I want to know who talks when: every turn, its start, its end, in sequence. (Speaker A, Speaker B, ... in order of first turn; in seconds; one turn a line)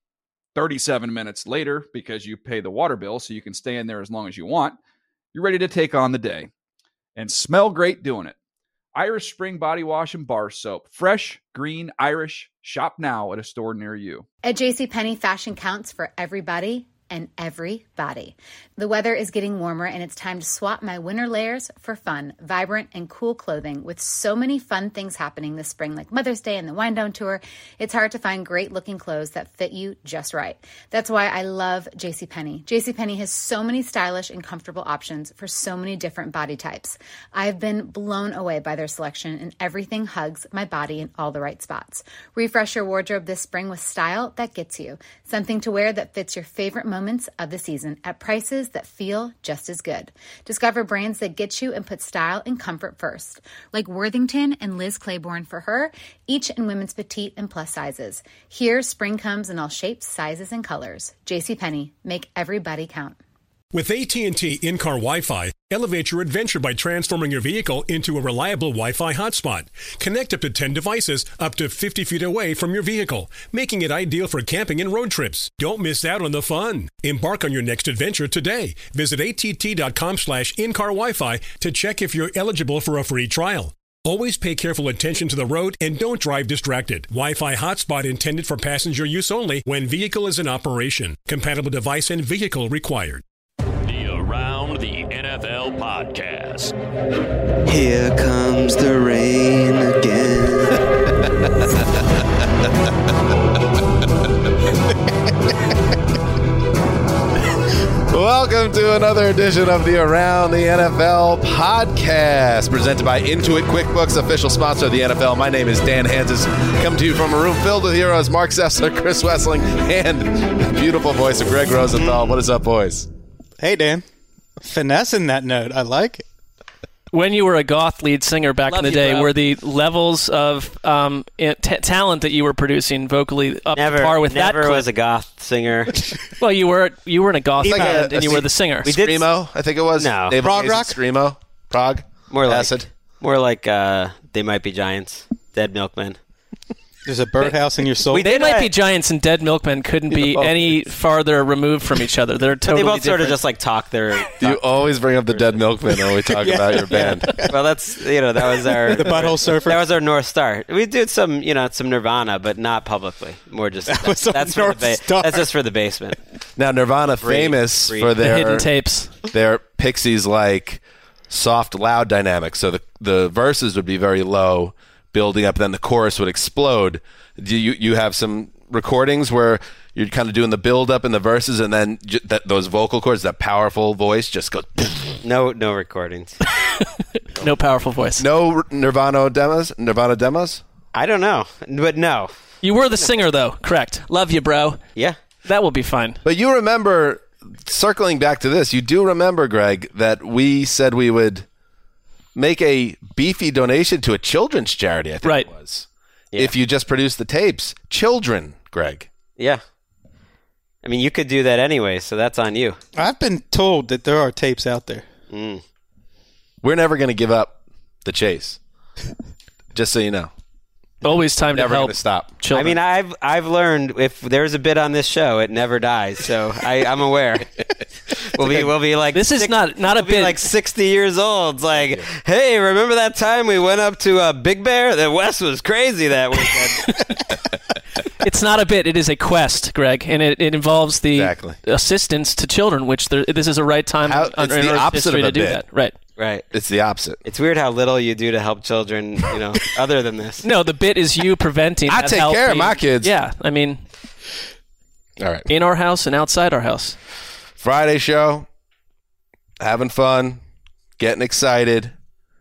Speaker A: 0.5-4.8
Speaker A: 5.3-6.5
Speaker A: 7.2-8.3
Speaker A: 8.9-14.2
Speaker B: 14.4-63.2
Speaker C: 63.7-93.2
Speaker D: 93.8-96.7
Speaker E: 97.7-100.3
Speaker F: 108.1-123.1
Speaker G: 123.6-124.0
Speaker G: 124.6-126.2
Speaker H: 127.1-134.8
Speaker I: 128.7-129.3
Speaker I: 133.8-136.0
Speaker H: 136.4-138.9
Speaker F: 137.6-142.8
Speaker G: 137.6-138.1
Speaker I: 138.9-139.3
Speaker I: 140.0-140.4
Speaker G: 140.4-141.0
Speaker I: 142.3-146.2
Speaker G: 147.1-148.3
Speaker I: 148.1-148.7
Speaker H: 148.2-153.4
Speaker I: 152.7-154.6
Speaker F: 154.4-157.3
Speaker I: 155.3-155.6
Speaker G: 156.3-157.5
Speaker I: 156.9-166.2
Speaker G: 158.4-159.8
Speaker G: 163.8-165.5
Speaker F: 166.6-168.7
Speaker I: 167.2-168.1
Speaker H: 168.2-169.1
Speaker F: 169.3-185.2
Speaker I: 185.2-186.3
Speaker H: 186.6-188.2
Speaker F: 188.2-190.6
Speaker I: 190.9-192.3
Speaker H: 192.6-194.8
Speaker H: 195.4-196.2
Speaker F: 196.2-201.4
Speaker F: 202.3-209.1
Speaker H: 205.2-205.5
Speaker I: 210.8-212.8
Speaker G: 212.9-215.1
Speaker I: 215.3-215.6
Speaker F: 216.6-218.6
Speaker F: 219.7-220.3
Speaker H: 221.0-222.8
Speaker F: 221.5-222.3
Speaker I: 222.5-227.5
Speaker I: 228.3-237.0
Speaker H: 229.1-230.4
Speaker H: 238.2-245.9
Speaker F: 241.1-241.6
Speaker F: 244.0-245.6
Speaker I: 246.2-246.4
Speaker F: 246.5-247.2
Speaker I: 247.2-250.4
Speaker H: 250.4-253.8
Speaker F: 251.9-253.1
Speaker F: 255.2-255.4
Speaker H: 255.5-256.9
Speaker F: 257.6-258.5
Speaker F: 259.6-260.4
Speaker F: 261.0-261.9